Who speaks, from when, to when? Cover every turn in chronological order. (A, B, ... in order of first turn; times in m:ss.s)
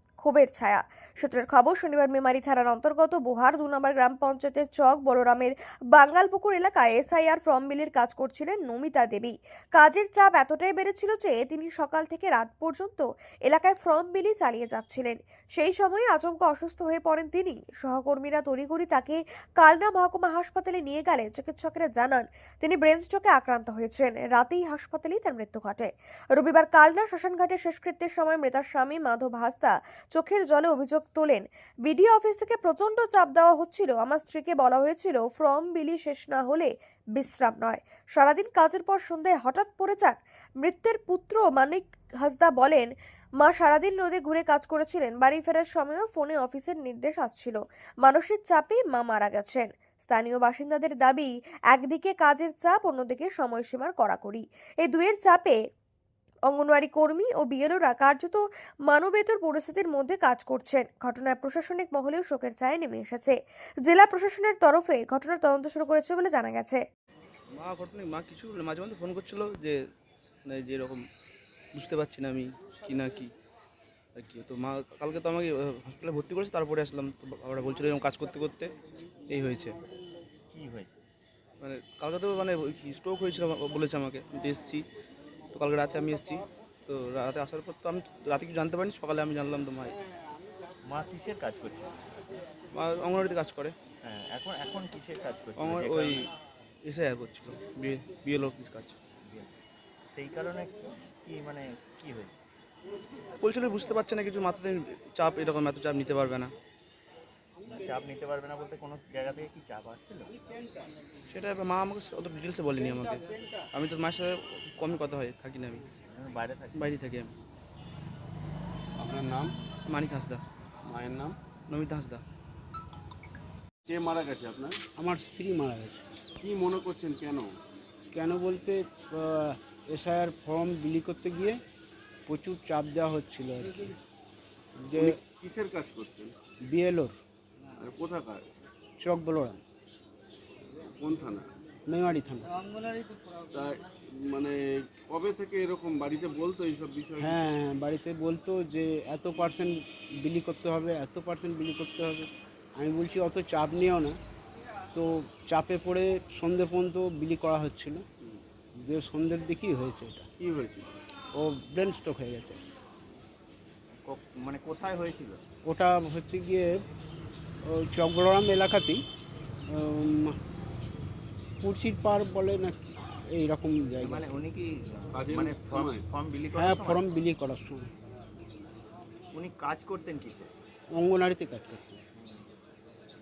0:00.2-0:42.9 A
0:43.4-0:55.6 A
0:56.5-1:06.8 A
1:07.5-1:09.8 B
1:10.4-1:11.0 B
1:11.7-1:13.3 B
1:14.2-1:18.7 B
1:19.3-1:19.8 B
1:20.5-1:21.0 C
1:21.6-1:24.8 B
1:25.5-1:30.0 B
1:30.9-1:31.9 C
1:32.7-1:33.7 B
1:34.0-1:36.3 C
1:35.6-1:36.3 B
1:36.8-1:39.0 B
1:39.2-1:39.5 C
1:40.1-1:42.3 C
1:43.4-1:46.5 B
1:47.7-1:50.3 C
1:51.3-1:55.9 B
1:56.0-1:56.9 C
1:56.8-1:57.3 B
1:59.0-1:59.6 D
1:59.9-2:00.4 B
2:00.9-2:01.4 D
2:01.7-2:02.2 B
2:03.9-2:04.8 D
2:05.0-2:06.0 E
2:06.4-2:07.6 D
2:08.1-2:11.6 E
2:12.3-2:13.9 E
2:14.8-2:15.2 E
2:14.9-2:16.3 D
2:16.7-2:17.1 E
2:17.8-2:18.4 D
2:19.0-2:19.6 E
2:21.0-2:21.5 D
2:21.9-2:22.5 E
2:23.5-2:27.5 D
2:27.2-2:34.2 E
2:34.9-2:38.0 E
2:38.8-2:40.3 E
2:40.4-2:41.0 D
2:41.4-2:42.6 E
2:43.9-2:45.4 C
2:45.7-2:46.8 E
2:47.7-2:49.0 E
2:49.7-2:50.4 E
2:51.6-2:54.2 E
2:54.0-2:57.1 C
2:55.1-2:56.0 D
2:56.6-2:57.9 E
2:59.3-3:00.5 C
3:00.9-3:02.0 E
3:02.2-3:02.5 C